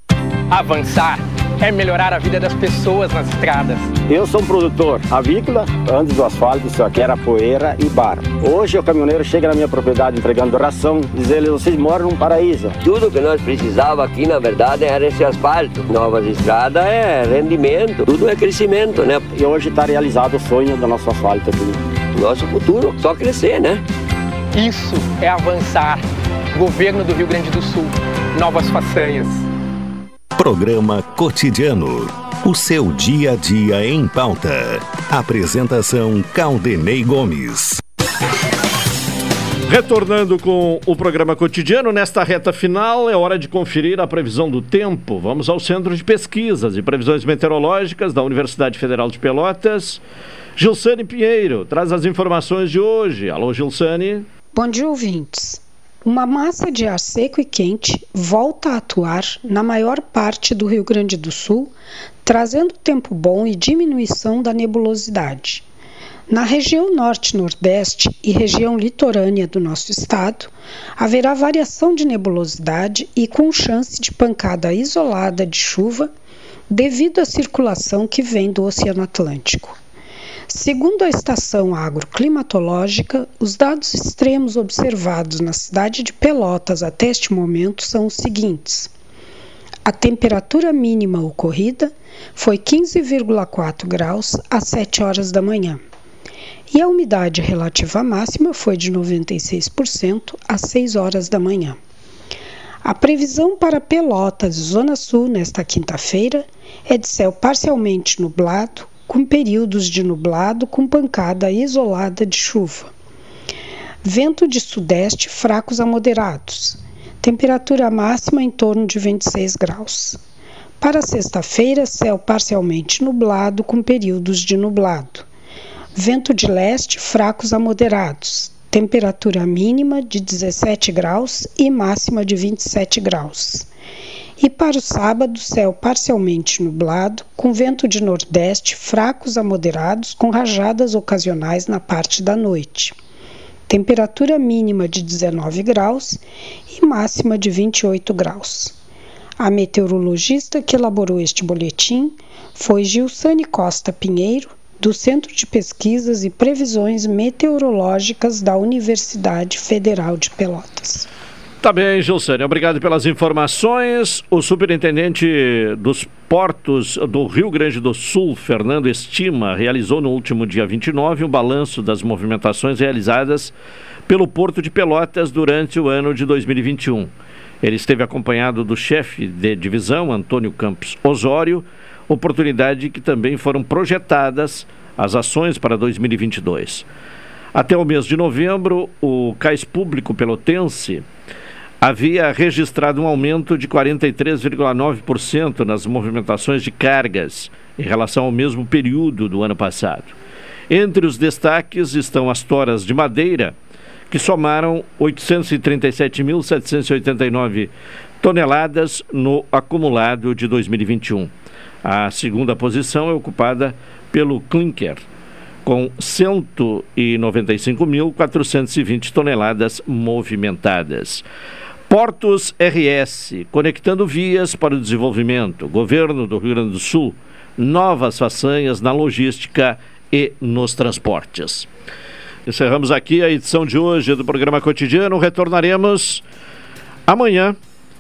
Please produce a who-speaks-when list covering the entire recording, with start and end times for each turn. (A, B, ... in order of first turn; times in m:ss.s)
0:00.5-0:03.9 A
0:04.1-0:12.8 B
0:12.8-0:19.2 C
0:19.3-0:21.8 B
0:22.1-0:23.8 C
0:24.5-0:29.4 A
0:30.4-0:37.8 D
0:39.7-0:50.0 E
0:50.6-0:54.2 E
0:54.5-1:01.7 F
1:02.2-1:05.6 F
1:06.3-1:16.1 F
1:16.7-1:19.8 F
1:20.5-1:28.9 F
1:29.8-1:35.8 F
1:36.7-1:41.8 F
1:42.8-1:52.9 F
1:54.0-2:00.2 F
2:00.8-2:05.2 F
2:05.9-2:13.7 F
2:14.4-2:22.9 F
2:23.7-2:28.7 F
2:29.4-2:41.1 F
2:41.6-2:53.5 E
2:54.1-2:57.1 E
2:57.6-3:06.8 E
3:07.5-3:11.0 E
3:11.8-3:20.1 E
3:20.7-3:23.5 E
3:24.1-3:31.3 E
3:31.8-3:35.0 E
3:35.6-3:41.2 E
3:41.9-3:51.7 E
3:52.5-3:56.2 E
3:57.1-3:57.6 E